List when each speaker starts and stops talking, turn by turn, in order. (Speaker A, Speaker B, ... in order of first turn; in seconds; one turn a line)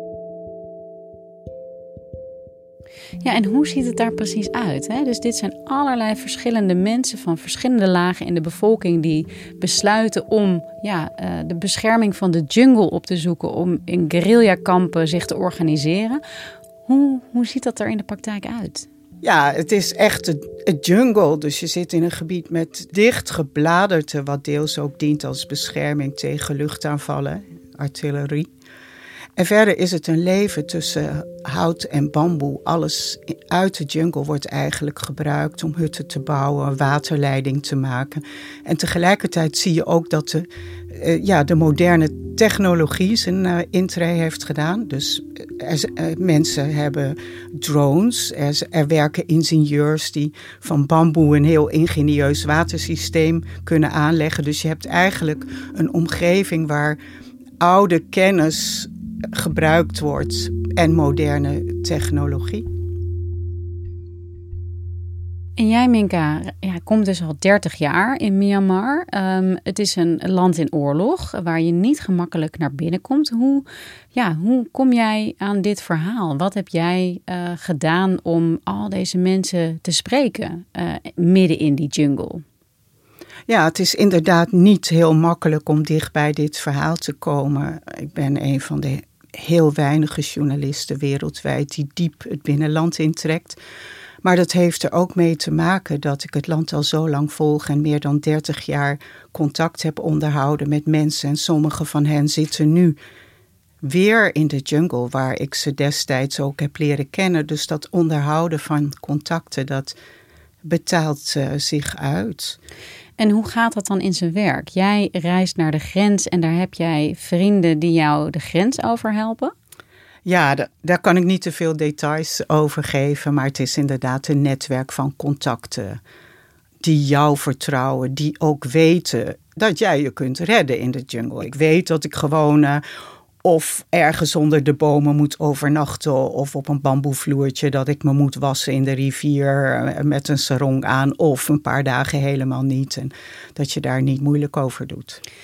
Speaker A: 3.2-16.2
Speaker A: 16.9-18.9
Speaker B: 19.2-28.5
Speaker B: 29.4-57.0
Speaker B: 57.6-62.7
Speaker A: 65.6-82.4
Speaker B: 83.5-93.6
Speaker B: 94.2-103.0
Speaker B: 103.8-110.0
Speaker B: 110.6-112.6
Speaker A: 113.2-119.5
Speaker B: 120.2-126.0
Speaker B: 126.8-132.8
Speaker B: 133.4-145.2